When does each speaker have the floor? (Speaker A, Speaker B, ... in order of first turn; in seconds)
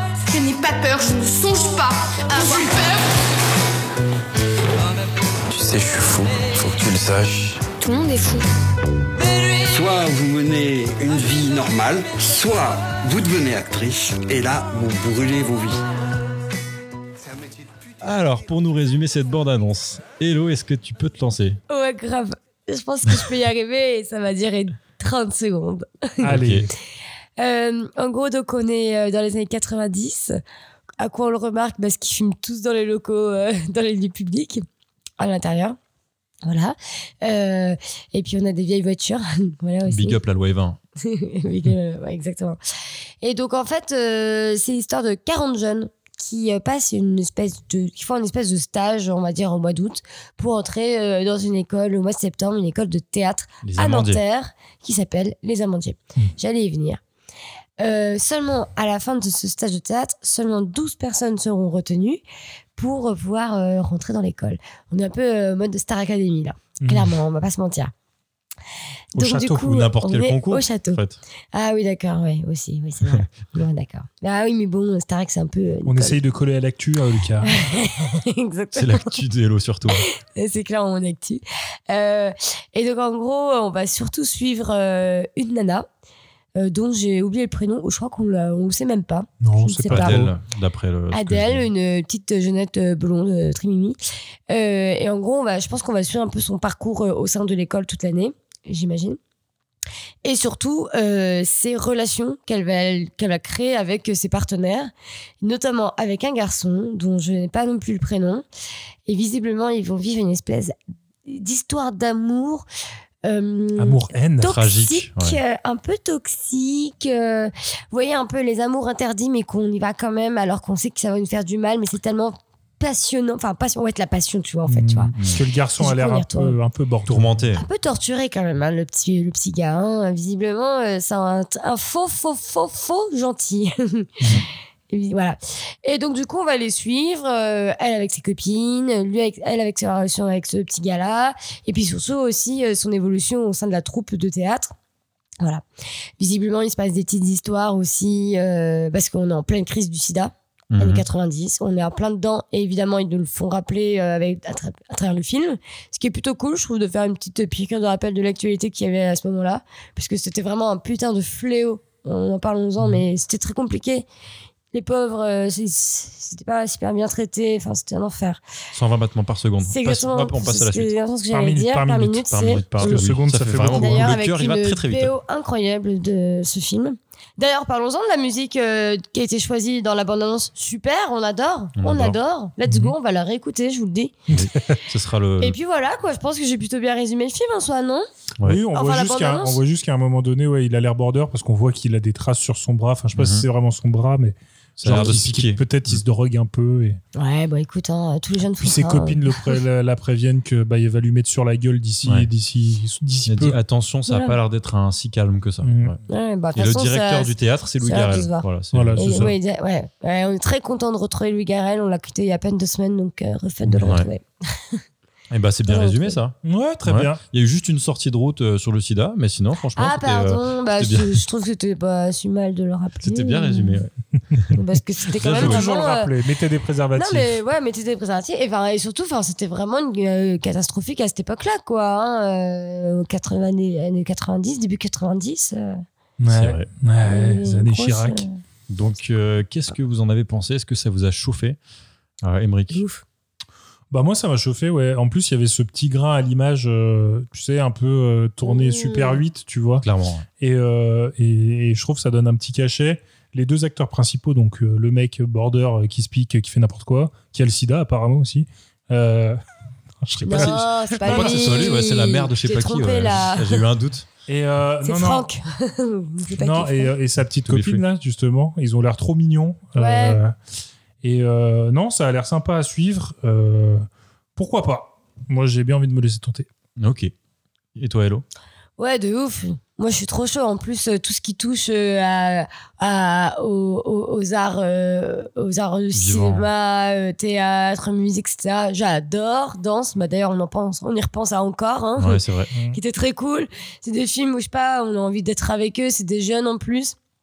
Speaker A: 0.2-3.1
Speaker B: 5.5-7.7
Speaker C: 9.6-15.8
Speaker D: 18.0-21.6, 26.3-26.7, 39.9-40.8, 53.6-54.2, 69.6-71.2, 78.7-80.0, 89.9-91.7, 114.4-115.4, 125.2-125.4, 127.1-127.6, 150.7-151.0, 168.7-170.9, 172.3-175.1, 181.8-182.2, 184.3-185.6, 193.1-193.5, 194.8-196.0, 203.2-206.0, 206.5-209.3, 213.7-214.1, 215.3-221.2, 223.0-223.9, 225.2-225.6, 236.2-236.7, 238.7-241.6, 242.2-242.8, 249.8-250.2, 260.1-264.1, 267.4-267.8, 276.8-277.1, 277.8-278.2, 285.9-286.5, 292.0-292.5
Speaker E: 21.7-26.2, 27.4-30.4, 31.0-34.6, 35.2-35.8, 36.4-40.2, 41.0-42.6, 43.2-57.0, 57.8-62.2, 62.8-67.9, 69.2-71.0, 71.5-76.2, 77.4-79.1, 79.9-85.9, 86.6-90.2, 91.1-94.0, 94.5-99.2, 100.2-104.9, 105.4-108.4, 109.0-110.7, 111.2-112.6, 113.2-125.1, 125.8-126.5, 127.5-134.1, 134.9-144.7, 146.2-164.1, 164.7-168.4, 169.6-173.0, 173.7-184.1, 185.4-188.1, 188.7-189.6, 197.1-199.2, 204.1-204.3, 206.1-214.8, 215.7-216.2, 219.8-223.8, 224.5-226.1, 226.9-235.8, 237.0-238.4, 242.7-243.0, 248.4-249.2, 260.2-263.6, 264.8-266.9, 269.8-270.2, 278.8-296.9
Speaker F: 26.2-26.7, 66.8-67.1, 69.1-69.7, 75.8-77.6, 89.4-90.3, 113.8-114.6, 124.7-127.4, 171.3-174.1, 182.7-182.9, 184.3-184.8, 188.4-197.0, 198.6-203.6, 205.6-205.9, 208.7-209.3, 216.4-217.2, 225.2-227.3, 236.2-238.2, 243.9-249.8, 250.4-259.4, 260.0-261.6, 264.3-265.3, 266.4-270.4, 271.0-276.5, 292.5-292.8